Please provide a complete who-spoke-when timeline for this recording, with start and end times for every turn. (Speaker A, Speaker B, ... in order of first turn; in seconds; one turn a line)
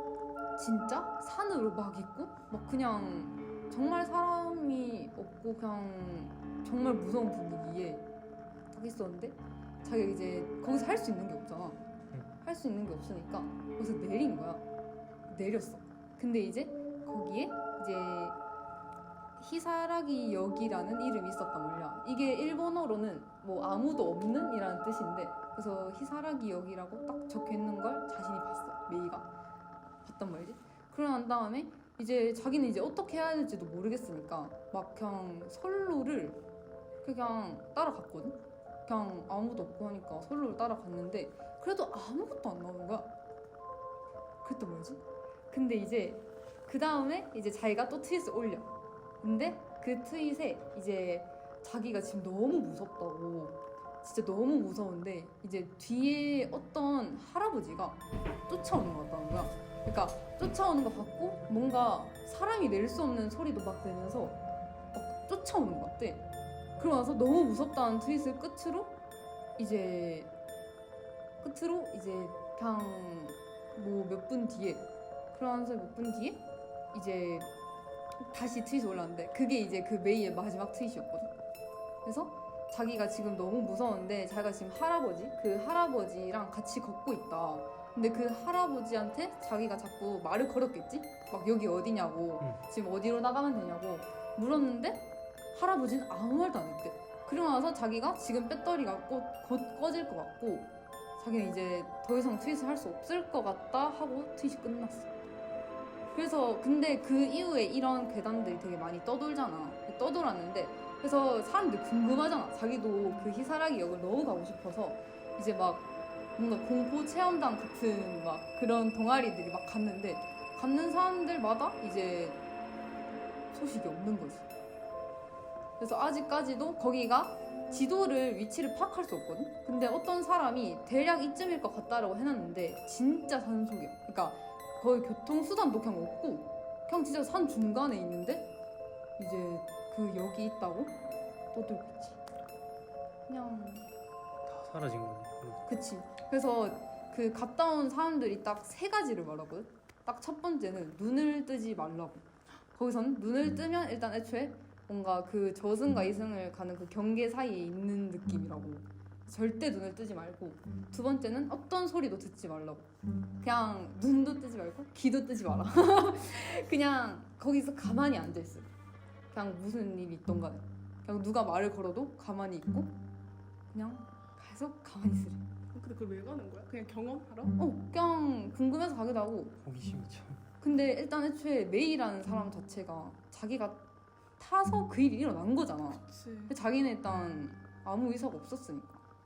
Speaker A: 0.6-8.0
Speaker A: 8.7-11.8
Speaker A: 12.4-14.6
Speaker A: 15.3-18.4
Speaker A: 19.4-29.3
Speaker A: 30.0-36.4
Speaker A: 37.0-43.1
Speaker A: 44.4-64.4
Speaker A: 64.9-66.2
Speaker A: 66.8-69.0
Speaker A: 69.6-70.3
Speaker A: 71.4-77.5
Speaker A: 78.2-81.3
Speaker A: 82.0-105.1
Speaker A: 106.1-122.4
Speaker A: 123.5-124.5
Speaker A: 125.8-138.5
Speaker A: 139.2-140.9
Speaker A: 141.5-142.2
Speaker A: 143.3-143.9
Speaker B: 144.4-145.6
Speaker A: 145.6-162.8
Speaker A: 163.4-168.7
Speaker A: 169.3-172.9
Speaker A: 173.7-175.4
Speaker C: 175.7-177.5
Speaker A: 177.6-179.5
Speaker B: 179.6-180.4
Speaker A: 180.6-183.8
Speaker A: 184.4-189.0
Speaker C: 185.9-186.5